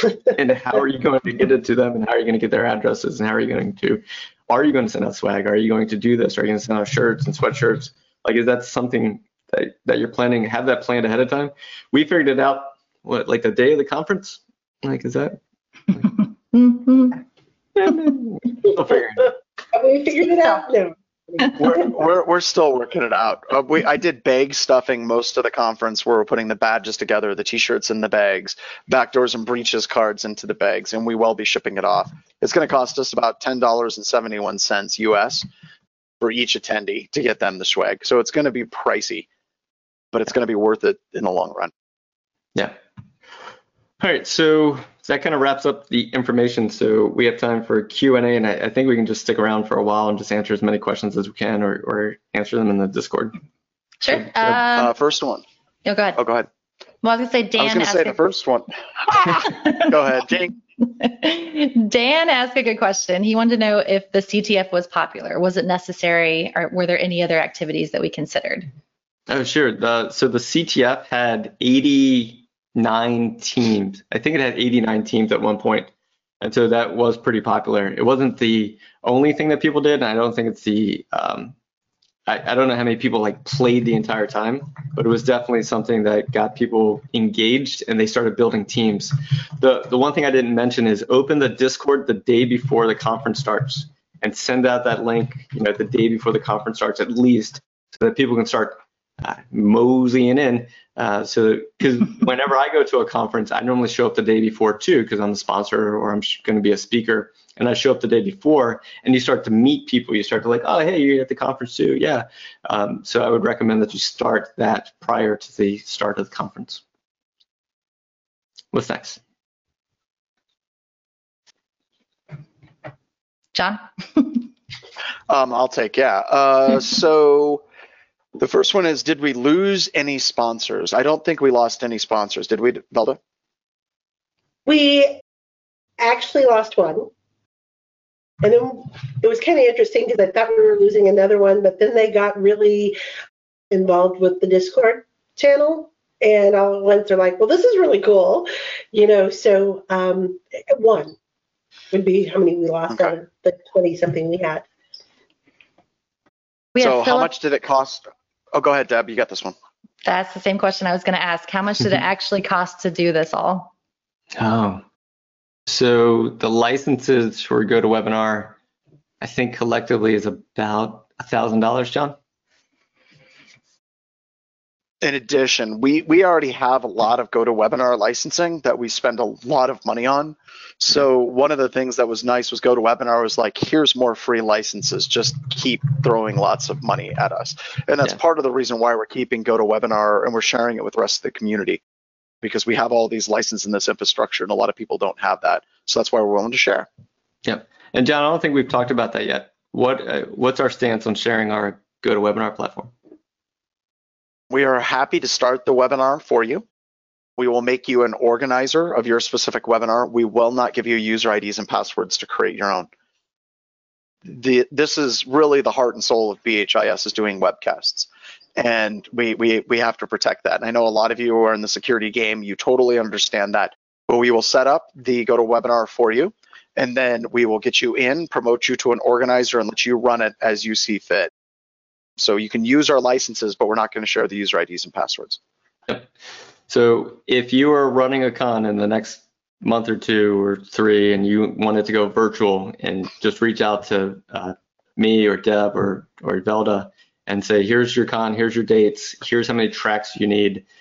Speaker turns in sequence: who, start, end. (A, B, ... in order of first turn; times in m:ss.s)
0:00.3-0:15.4 A
0:16.5-0:17.1 B
0:17.8-0:19.3 A
0:19.7-0:21.6 C
0:21.6-0:35.5 D
0:36.2-0:39.3 D
0:40.1-0:41.7 D
0:44.0-0:53.4 A
0:54.0-0:55.0 B
0:54.7-0:55.4 D
0:55.8-0:56.2 B
0:56.2-0:56.5 D
0:57.0-0:58.3 B
0:57.6-1:00.6 D
0:59.4-0:59.9 B
1:00.8-1:08.7 B
1:09.3-1:21.5 A
1:22.3-1:56.8 A
1:58.7-1:59.2 A
2:03.5-2:04.3 B
2:05.3-2:07.6 D
2:08.4-2:13.2 D
2:14.7-2:15.2 C
2:16.0-2:17.1 C
2:18.4-2:23.0 C
2:23.7-2:31.2 C
2:31.9-2:34.6 C
2:36.8-2:37.3 B
2:36.8-2:39.6 D
2:40.0-2:43.7 B
2:44.4-2:44.8 A
2:45.7-2:48.6 A
2:49.2-2:52.2 A
2:55.0-3:11.8 D
3:12.4-3:16.9 D
3:17.4-3:22.9 A
3:24.5-3:26.6 D
3:27.4-3:32.9 D
3:34.3-3:51.3 D
3:52.2-3:55.4 D
3:56.7-4:10.6 A